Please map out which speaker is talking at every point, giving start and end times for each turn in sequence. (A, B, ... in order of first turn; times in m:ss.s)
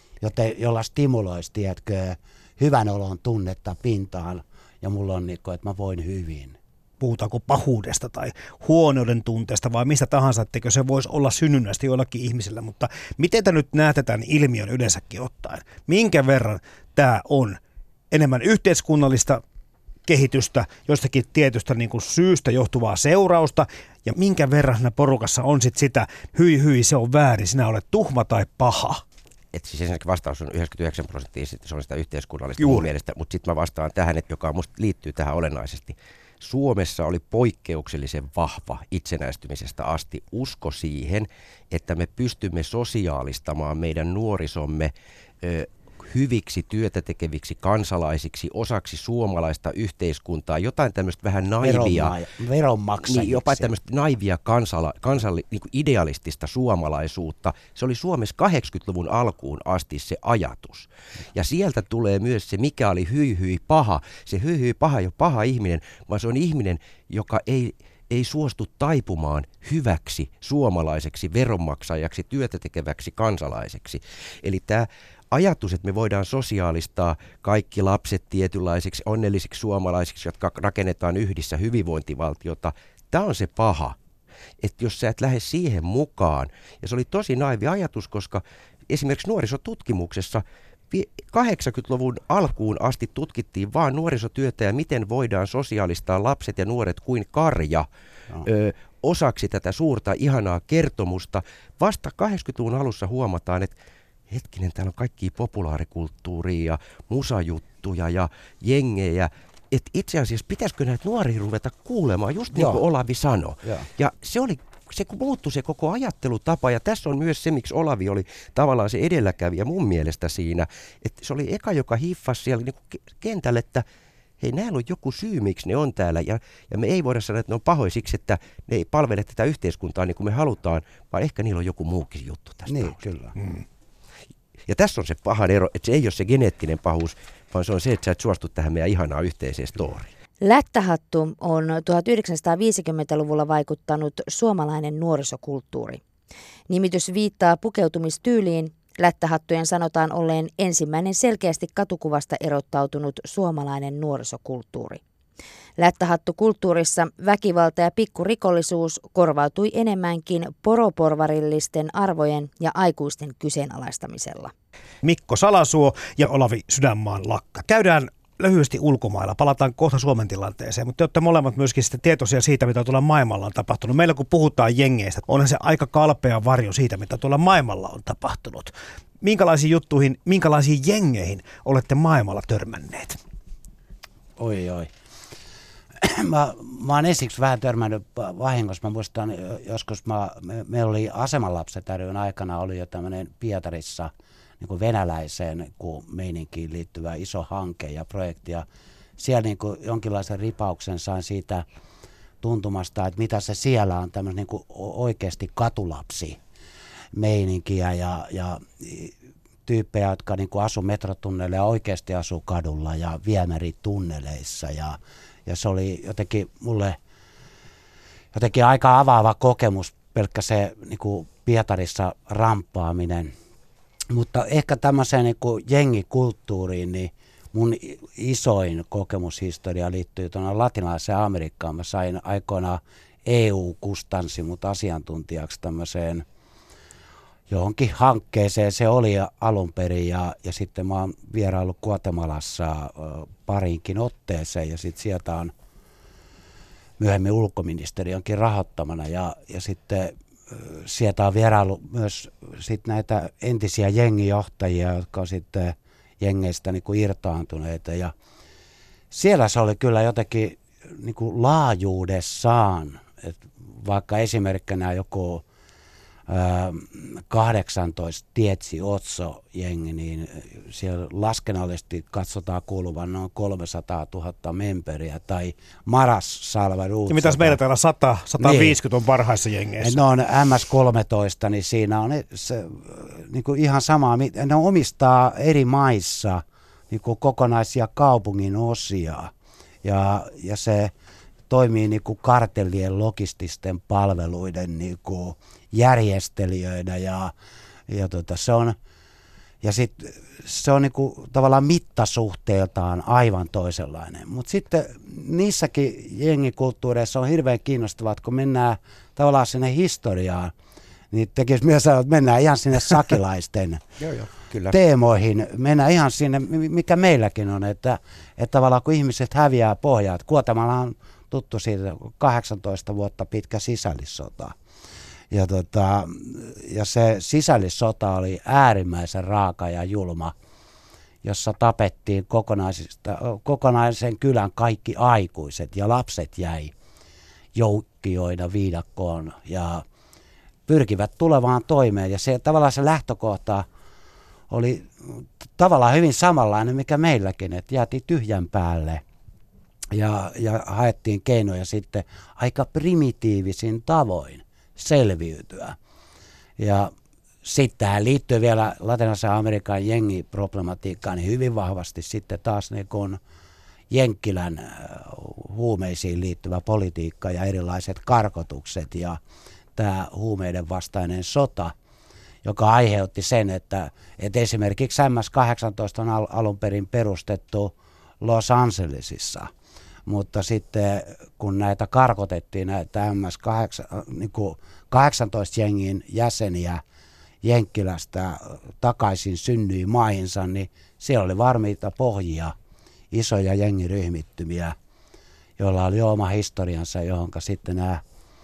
0:00.2-0:06.6 A
0:07.0-0:17.6 B
0:18.1-0:19.4 B
0:20.0-0:29.0 B
0:29.5-0:44.9 C
0:32.6-0:32.9 B
0:45.4-0:52.2 C
0:51.6-0:53.7 A
0:53.1-1:24.0 C
1:24.6-1:37.8 C
1:38.4-1:43.7 C
1:44.3-2:03.8 C
1:52.5-1:52.8 A
2:04.4-2:13.0 C
2:12.7-2:13.3 A
2:14.7-2:20.1 C
2:20.4-2:26.0 D
2:26.7-2:35.0 D
2:35.8-2:44.5 D
2:45.0-3:03.2 B
3:04.4-3:04.9 A
3:06.0-3:18.6 A
3:19.2-3:21.6 A
3:22.4-3:26.4 A
3:27.1-3:29.1 A
3:29.6-3:37.0 A
3:38.3-3:43.3 A
3:44.1-3:56.2 A
3:57.5-4:05.5 A
4:07.0-4:18.1 A
4:19.1-4:25.4 A
4:26.3-4:37.6 A
4:37.1-4:40.0 B
4:38.4-4:38.8 A
4:39.8-4:49.3 A
4:49.8-4:50.9 A
4:51.5-4:57.3 A
4:57.9-4:58.8 A
4:59.6-5:10.5 A
5:11.1-5:13.9 A
5:14.0-5:14.8 C
5:14.7-5:24.5 A
5:25.3-5:30.3 A
5:31.2-5:36.7 A
5:37.5-5:39.8 A
5:40.7-5:43.6 A
5:44.5-5:49.0 A
5:49.9-5:55.8 A
5:56.6-5:56.9 A
5:57.4-6:03.2 A
6:03.9-6:09.2 A
6:09.8-6:11.7 A
6:12.4-6:19.5 A
6:20.0-6:26.8 A
6:27.4-6:32.5 A
6:33.1-6:34.7 A
6:35.6-6:38.0 A